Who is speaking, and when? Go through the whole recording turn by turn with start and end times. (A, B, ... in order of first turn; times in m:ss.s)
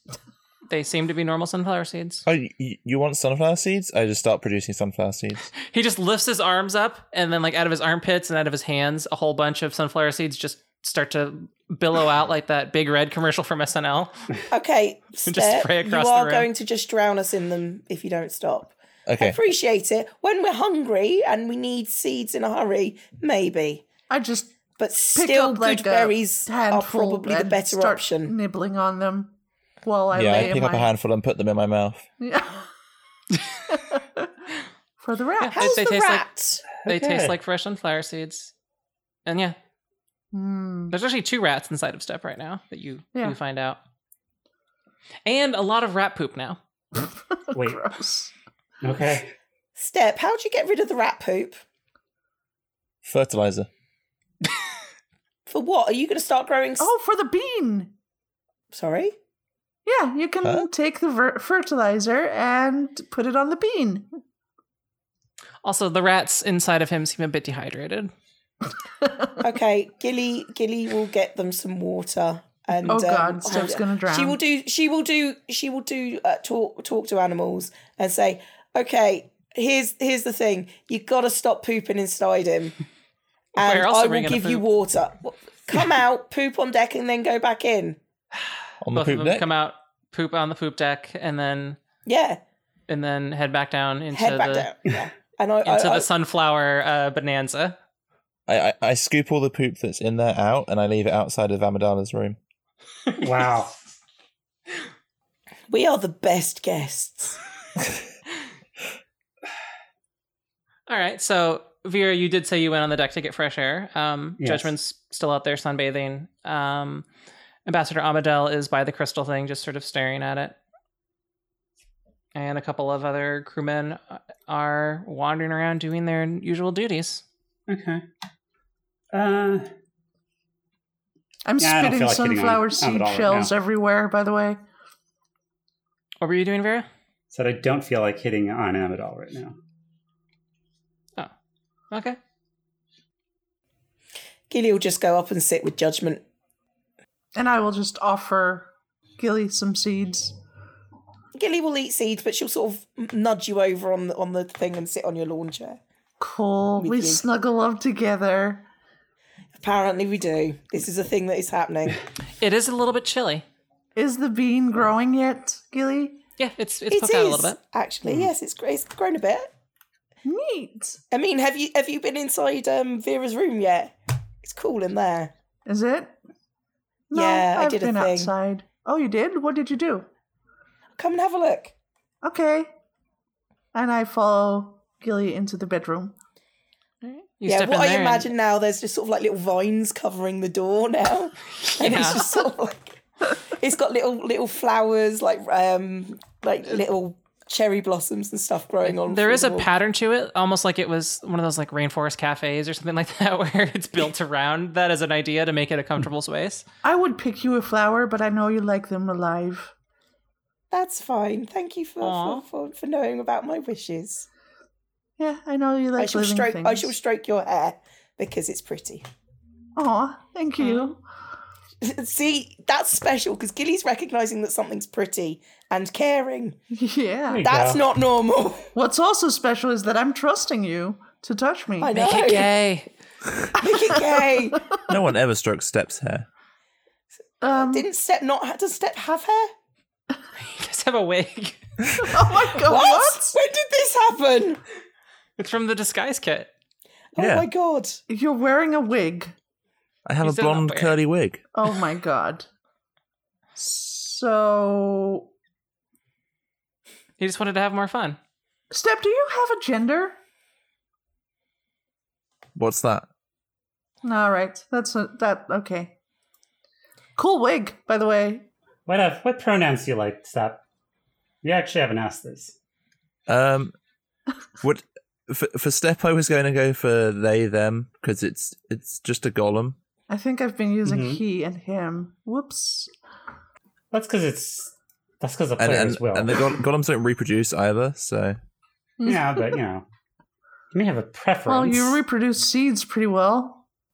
0:00.7-0:02.2 A
0:02.2-0:05.5 B
0:05.6-0:14.1 A
0:14.5-0:23.9 C
0:15.2-0:16.5 A
0:19.1-0:19.4 B
0:24.1-0:24.6 D
0:24.8-0:28.3 C
0:25.1-0:30.9 D
0:30.1-0:32.0 B
0:32.2-0:32.7 D
0:33.7-0:34.3 D
0:35.0-0:35.8 D
0:35.4-0:36.2 A
0:35.5-0:36.7 C
0:36.8-0:37.4 E
0:36.8-0:38.5 A
0:39.2-0:39.6 A
0:40.3-0:40.9 D
0:40.9-0:43.8 A
0:45.2-0:46.6 A
0:47.0-0:48.3 D
0:47.5-0:47.9 E
0:48.8-0:49.3 E
0:49.8-0:51.6 C
0:53.0-0:53.7 B
0:55.5-0:56.9 C
0:56.8-0:57.9 D
0:58.7-0:59.1 C
0:59.8-1:04.1 D
1:05.6-1:08.1 A
1:09.0-1:09.3 D
1:09.4-1:22.8 C
1:12.9-1:14.4 D
1:23.6-1:28.0 C
1:23.6-1:24.6 A
1:28.8-1:29.4 B
1:28.9-1:31.8 A
1:32.1-1:32.4 C
1:32.9-1:34.7 A
1:34.1-1:36.1 C
1:35.6-1:37.8 A
1:38.5-1:42.4 B
1:43.2-1:43.7 E
1:45.7-1:47.4 C
1:50.9-1:57.1 A
1:54.4-1:54.7 E
1:57.6-2:00.6 A
2:02.4-2:07.2 A
2:07.7-2:08.0 E
2:09.1-2:09.7 E
2:11.4-2:14.6 D
2:11.6-2:13.5 E
2:16.2-2:16.9 A
2:17.3-2:19.6 E
2:21.9-2:22.2 A
2:24.5-2:26.2 C
2:27.4-2:30.4 D
2:31.4-2:35.8 C
2:36.2-2:38.7 D
2:36.8-2:37.2 C
2:39.6-2:42.0 C
2:42.4-2:43.4 A
2:43.9-2:46.2 D
2:46.4-2:47.6 A
2:46.9-2:49.5 C
2:50.2-2:51.0 D
2:51.1-2:55.3 C
2:55.6-2:56.2 D
2:57.1-3:00.1 D
2:57.1-2:58.3 C
3:01.0-3:01.7 C
3:02.2-3:02.7 D
3:03.7-3:06.1 D
3:07.0-3:08.3 A
3:07.4-3:19.7 C
3:11.6-3:12.2 A
3:18.9-3:26.6 A
3:26.8-3:29.7 D
3:30.7-3:34.2 C
3:32.0-3:32.4 A
3:35.2-3:36.9 D
3:36.0-3:39.0 C
3:39.8-3:41.0 D
3:40.6-3:40.9 A
3:41.8-3:46.6 C
3:46.7-3:47.4 D
3:47.3-3:47.8 E
3:47.4-3:48.7 C
3:48.7-3:52.1 D
3:51.8-3:52.5 C
3:51.9-3:52.9 A
3:53.6-3:54.6 C
3:53.6-3:54.2 D
3:54.9-3:56.2 B
3:57.4-3:57.8 D
3:57.5-3:59.5 C
4:00.4-4:01.6 A
4:02.0-4:03.4 D
4:02.6-4:04.6 C
4:05.4-4:06.5 A
4:07.1-4:08.0 C
4:07.2-4:07.5 B
4:08.1-4:09.3 D
4:10.1-4:11.4 B
4:10.2-4:11.0 A
4:11.5-4:12.5 D
4:13.6-4:15.3 D
4:17.2-4:18.2 A
4:18.7-4:20.2 D
4:22.6-4:23.1 B
4:24.0-4:25.9 D
4:27.2-4:28.5 D
4:28.9-4:30.6 E
4:31.4-4:32.6 E
4:33.3-4:33.7 B
4:34.6-4:39.8 B
4:40.1-4:42.9 D
4:40.8-4:41.2 E
4:43.9-4:46.5 E
4:45.6-4:48.4 B
4:49.0-4:49.6 D
4:49.0-4:49.9 E
4:50.7-4:52.0 E
4:51.5-4:53.6 D